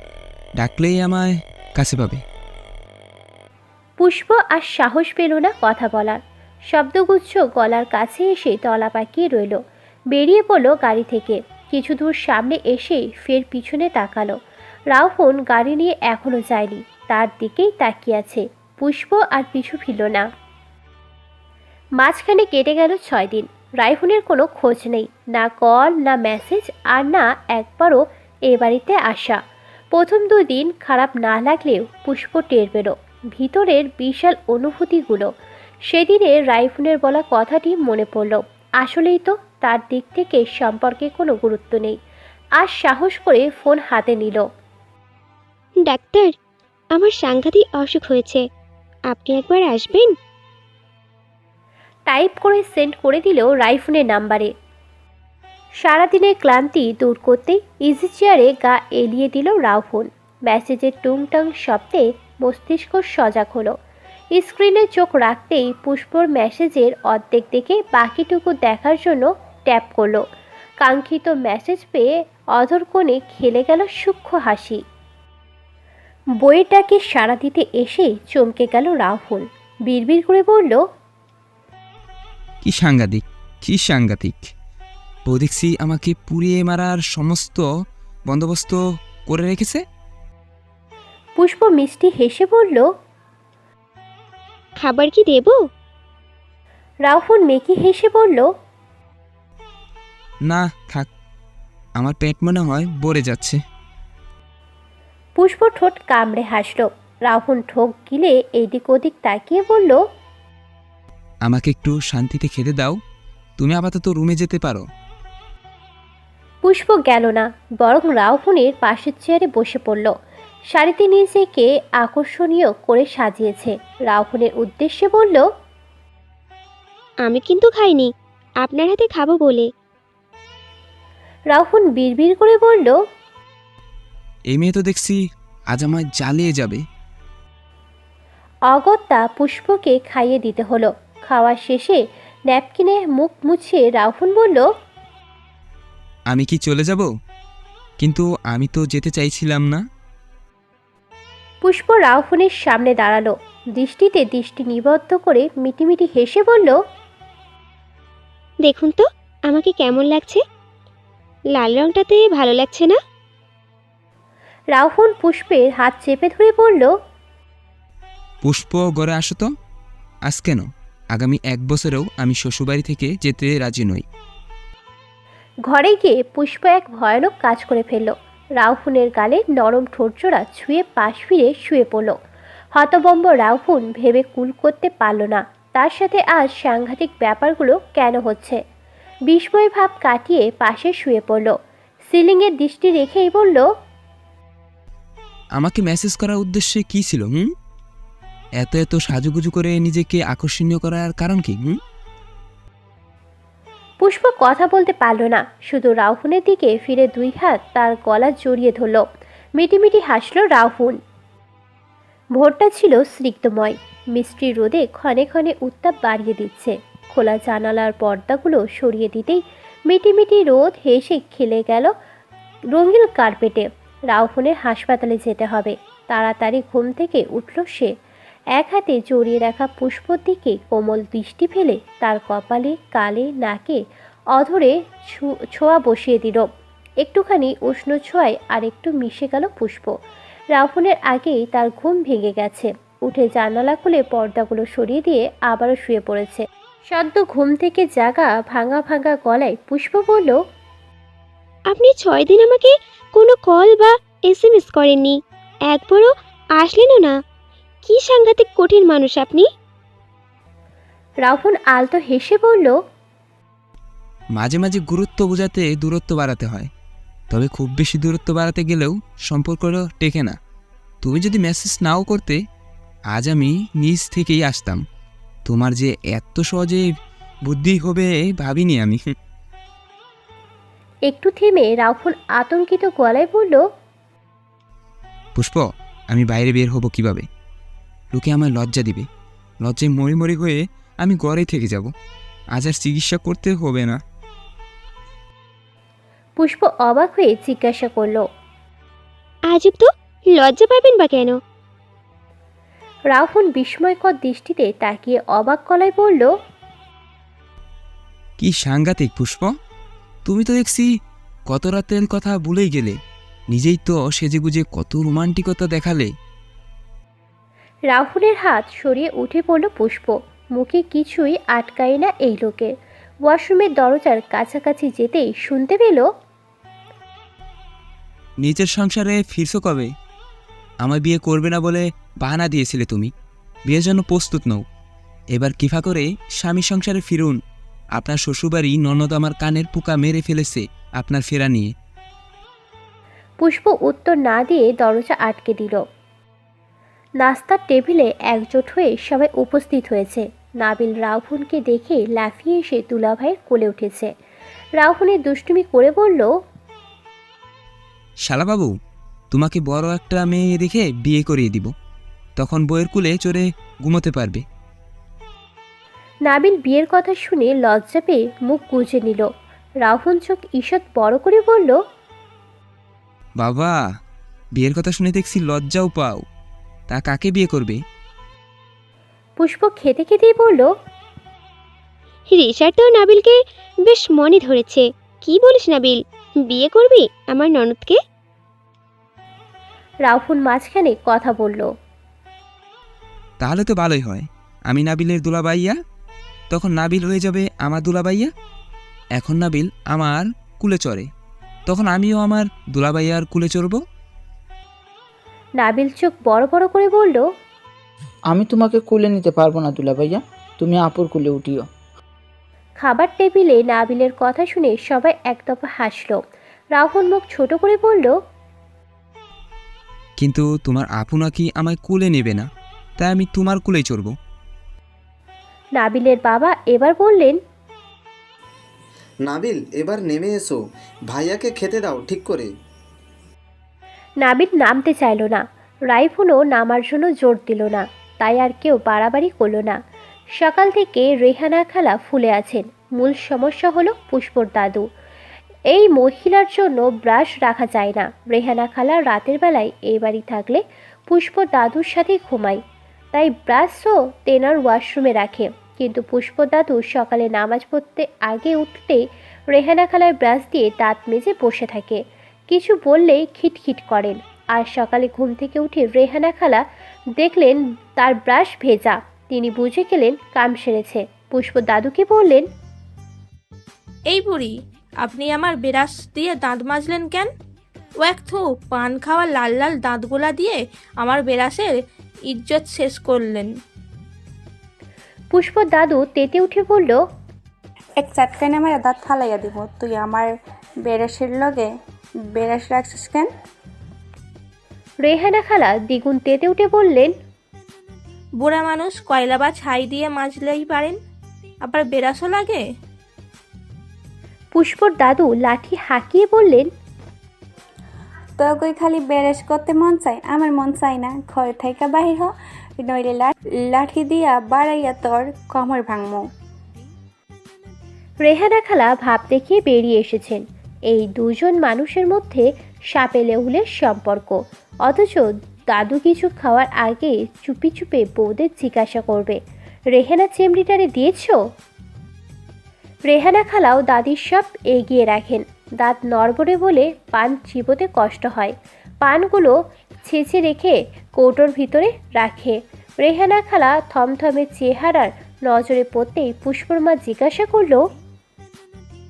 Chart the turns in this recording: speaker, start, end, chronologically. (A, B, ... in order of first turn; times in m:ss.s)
0:00.6-0:02.2 A
0:04.0-0:06.2 B
0:06.7-0:09.6 B
0:10.1-0:14.3 B
0:14.9-0:20.3 B
0:22.0-0:29.4 B
0:29.9-0:35.3 B
0:35.9-0:42.0 B
0:42.6-0:44.4 B
0:45.8-0:46.3 C
0:46.9-0:48.4 C
0:49.1-0:50.1 C
0:52.1-0:54.5 B
0:55.8-1:03.7 B
1:04.3-1:10.2 B
1:10.8-1:14.8 B
1:16.4-1:20.8 B
1:22.6-1:24.5 A
1:25.2-1:27.6 A
1:28.3-1:29.8 A
1:31.4-1:32.9 B
1:34.8-1:35.6 C
1:37.0-1:38.5 B
1:40.4-1:41.1 A
1:42.0-1:43.6 A
1:45.4-1:50.0 B
1:51.4-1:53.0 A
1:53.6-1:54.8 A
1:56.6-2:00.1 B
2:00.7-2:05.4 B
2:07.2-2:08.1 C
2:08.6-2:09.6 C
2:11.5-2:13.0 B
2:14.5-2:15.2 A
2:15.7-2:16.8 A
2:18.7-2:24.6 B
2:26.3-2:27.1 A
2:28.0-2:29.8 A
2:31.6-2:36.8 B
2:38.6-2:40.4 C
2:41.5-2:43.0 C
2:44.7-2:46.9 B
2:48.4-2:49.5 A
2:50.3-2:54.0 A
2:55.7-3:02.1 B
3:02.7-3:08.6 B
3:09.3-3:11.5 B
3:12.1-3:13.7 B
3:15.6-3:17.5 A
3:18.6-3:21.8 A
3:24.0-3:29.0 B
3:29.6-3:31.0 B
3:32.4-3:41.9 B
3:42.7-3:47.9 B
3:48.6-3:53.8 B
3:54.3-3:56.5 B
3:57.0-3:59.9 B
4:00.5-4:10.4 B
4:11.7-4:15.2 C
4:15.7-4:17.1 C
4:17.8-4:19.4 C
4:21.2-4:22.8 B
4:24.4-4:26.7 A
4:27.3-4:30.4 A
4:31.0-4:32.4 A
4:33.1-4:34.8 A
4:35.4-4:36.8 A
4:37.5-4:39.1 A
4:41.1-4:43.6 B
4:45.4-4:47.2 A
4:48.1-4:49.0 A
4:49.6-4:51.9 A
4:52.5-4:54.0 A
4:56.4-4:58.2 B
4:59.5-5:01.3 C
5:03.1-5:06.3 B
5:08.4-5:09.5 A
5:10.2-5:10.9 A
5:11.5-5:12.9 A
5:13.5-5:16.1 A
5:17.9-5:22.7 B
5:23.2-5:26.0 B
5:28.4-5:29.9 A
5:30.8-5:33.1 A
5:33.7-5:34.6 A
5:35.3-5:37.4 A
5:38.0-5:41.7 A
5:43.4-5:45.8 B
5:47.2-5:54.1 B
5:54.8-5:56.3 B
5:58.2-5:58.7 A
5:59.3-6:01.7 A
6:02.4-6:04.4 A
6:06.3-6:09.3 B
6:09.8-6:11.8 B
6:13.4-6:13.7 A
6:14.6-6:16.2 A
6:16.9-6:17.8 A
6:19.4-6:20.7 B
6:22.3-6:28.0 C
6:30.0-6:31.7 B
6:33.4-6:35.7 A
6:36.5-6:38.3 A
6:39.2-6:41.1 A
6:41.7-6:43.8 A
6:45.6-6:47.2 B
6:48.3-6:51.7 D
6:52.8-6:56.2 B
6:56.7-6:58.1 B
7:00.2-7:02.4 A
7:03.0-7:04.1 A
7:05.8-7:07.4 B
7:09.2-7:12.5 E
7:14.2-7:19.8 B
7:20.4-7:24.8 B
7:25.7-7:32.6 B
7:33.1-7:46.6 B
7:47.2-7:52.4 B
7:54.1-7:54.5 F
7:55.0-7:57.3 F
7:58.0-8:01.7 F
8:02.3-8:03.5 F
8:05.3-8:07.0 B
8:08.0-8:10.3 G
8:10.8-8:11.7 G
8:12.3-8:13.3 G
8:15.0-8:17.1 B
8:18.4-8:21.0 F
8:21.6-8:22.6 F
8:24.5-8:26.7 B
8:28.4-8:36.2 G
8:38.2-8:49.4 B
8:49.9-8:51.4 B
8:53.1-9:07.9 B